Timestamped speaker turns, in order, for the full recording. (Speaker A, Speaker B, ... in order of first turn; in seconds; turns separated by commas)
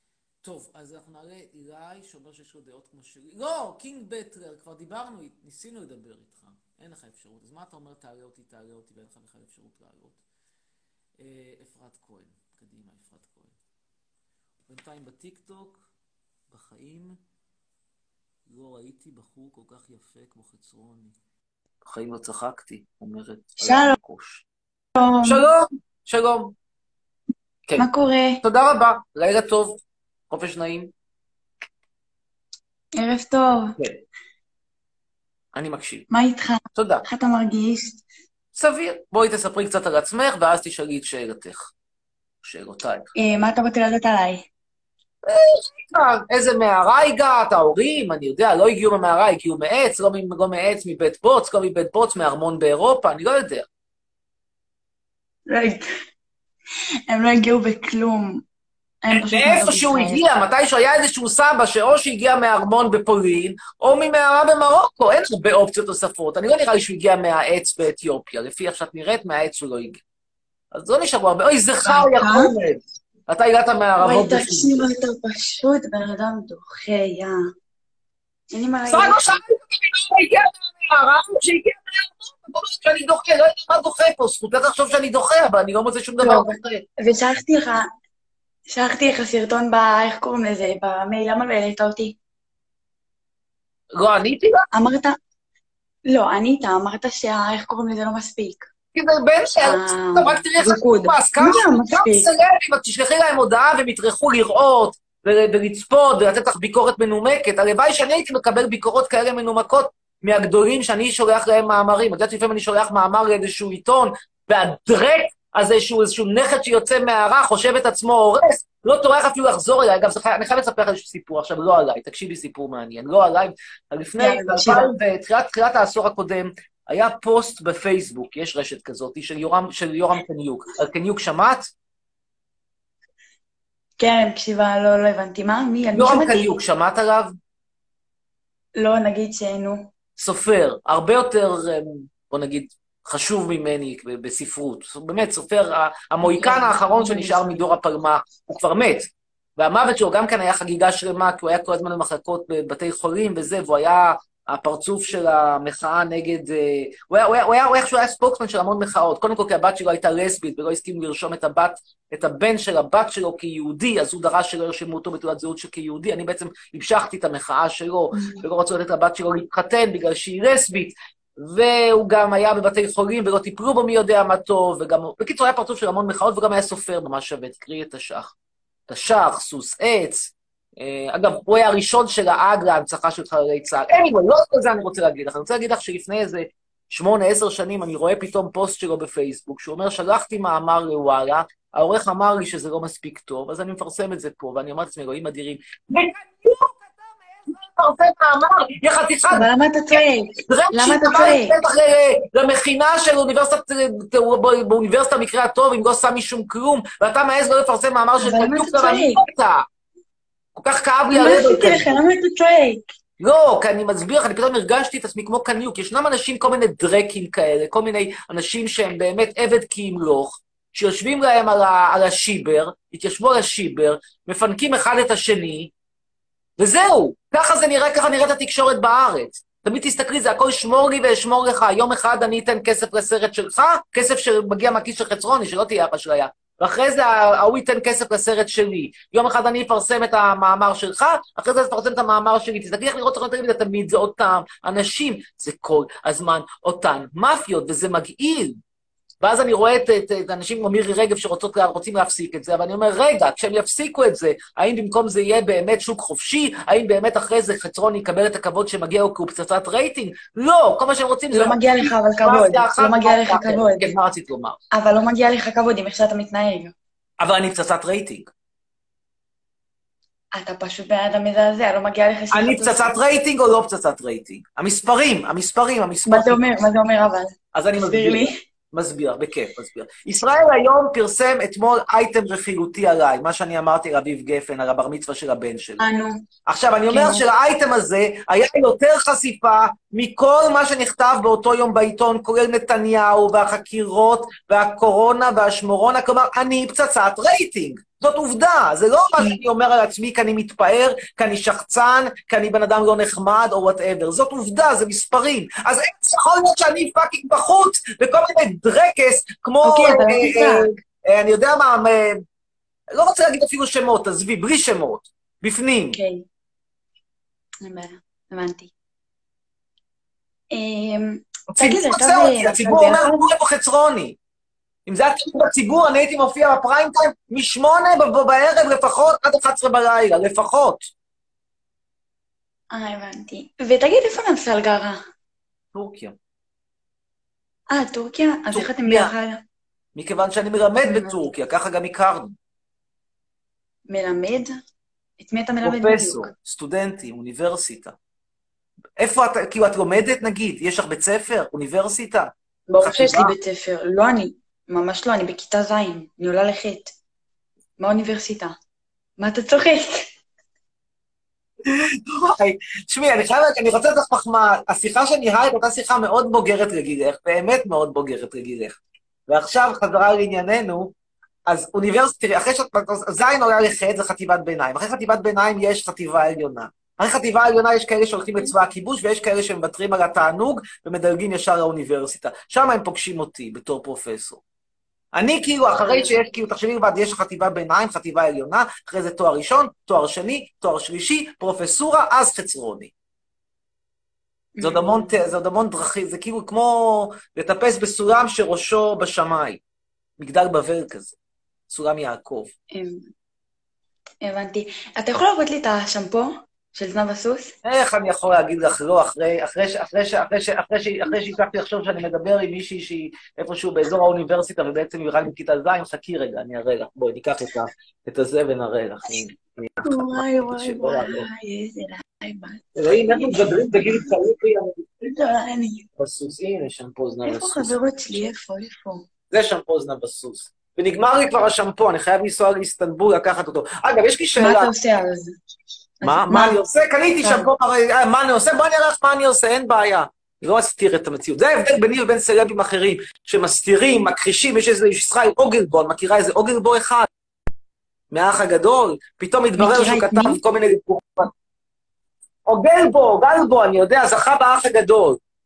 Speaker A: 0.4-10.2, Speaker A: 11.2-13.6, Speaker A: 14.7-15.8, Speaker A: 16.5-17.2, Speaker A: 18.5-21.1, Speaker B: 21.9-24.4, Speaker C: 23.6-23.9, Speaker C: 25.0-25.4, Speaker B: 25.2-26.5, Speaker C: 27.8-28.4, Speaker B: 28.4-29.8, Speaker B: 30.3-30.9, Speaker C: 33.0-33.8, Speaker B: 35.5-36.1, Speaker C: 36.1-38.0, Speaker B: 36.7-37.1, Speaker B: 38.5-41.7, Speaker B: 42.4-43.1, Speaker C: 43.2-44.4, Speaker B: 45.2-53.7, Speaker C: 55.5-55.8, Speaker C: 57.1-58.4, Speaker C: 59.0-60.2, Speaker B: 59.1-70.0, Speaker B: 70.7-74.9, Speaker C: 71.9-72.5, Speaker C: 74.0-77.4, Speaker C: 78.5-79.2, Speaker B: 78.9-86.8, Speaker C: 86.2-87.9, Speaker C: 88.7-92.2, Speaker B: 93.9-94.7, Speaker C: 94.7-95.2, Speaker C: 96.1-98.7, Speaker B: 99.0-131.7, Speaker C: 99.6-102.3, Speaker C: 124.2-124.9, Speaker C: 134.0-136.6, Speaker B: 135.9-137.3, Speaker C: 138.8-139.9, Speaker B: 140.2-149.1, Speaker C: 146.2-147.7, Speaker B: 149.6-178.3, Speaker C: 168.2-168.4, Speaker B: 178.9-196.7, Speaker B: 197.5-209.7, Speaker C: 199.3-201.6, Speaker C: 208.2-209.2, Speaker B: 210.6-212.0, Speaker C: 211.1-212.8, Speaker B: 213.2-225.7, Speaker B: 226.6-248.6, Speaker B: 249.2-264.6, Speaker C: 261.3-263.9, Speaker C: 264.7-266.7, Speaker B: 267.2-268.3, Speaker C: 270.3-272.9, Speaker B: 272.3-276.4, Speaker C: 276.1-278.4, Speaker B: 277.5-285.9, Speaker C: 285.8-286.2, Speaker B: 286.5-312.2, Speaker C: 286.9-287.2, Speaker C: 309.6-310.7, Speaker B: 312.9-316.0, Speaker C: 315.9-316.2, Speaker C: 317.6-318.7, Speaker C: 320.5-323.2, Speaker B: 321.5-324.2, Speaker B: 324.9-330.9, Speaker C: 332.7-335.0, Speaker B: 335.7-336.2, Speaker C: 337.7-339.4, Speaker B: 338.5-339.1, Speaker B: 340.0-342.4, Speaker C: 340.8-341.2, Speaker C: 343.9-344.5, Speaker C: 345.2-346.3, Speaker B: 345.6-347.9, Speaker B: 349.0-353.3, Speaker C: 352.7-356.9, Speaker C: 357.8-358.6, Speaker C: 359.2-360.1, Speaker B: 361.6-370.9, Speaker B: 371.5-384.4, Speaker B: 385.1-392.9, Speaker C: 385.8-386.2, Speaker C: 394.6-395.1, Speaker B: 394.6-399.6, Speaker B: 400.2-401.2, Speaker B: 401.7-402.5, Speaker C: 402.7-403.1, Speaker C: 404.2-407.5, Speaker B: 407.6-421.3, Speaker C: 419.8-424.1, Speaker B: 422.8-424.9, Speaker C: 425.0-425.9, Speaker B: 426.0-427.8, Speaker C: 427.2-429.0, Speaker B: 429.3-434.7, Speaker C: 434.4-435.3, Speaker C: 436.0-436.6, Speaker B: 436.0-447.1, Speaker C: 437.2-437.5, Speaker B: 448.1-451.3, Speaker C: 449.6-450.4, Speaker B: 452.5-455.2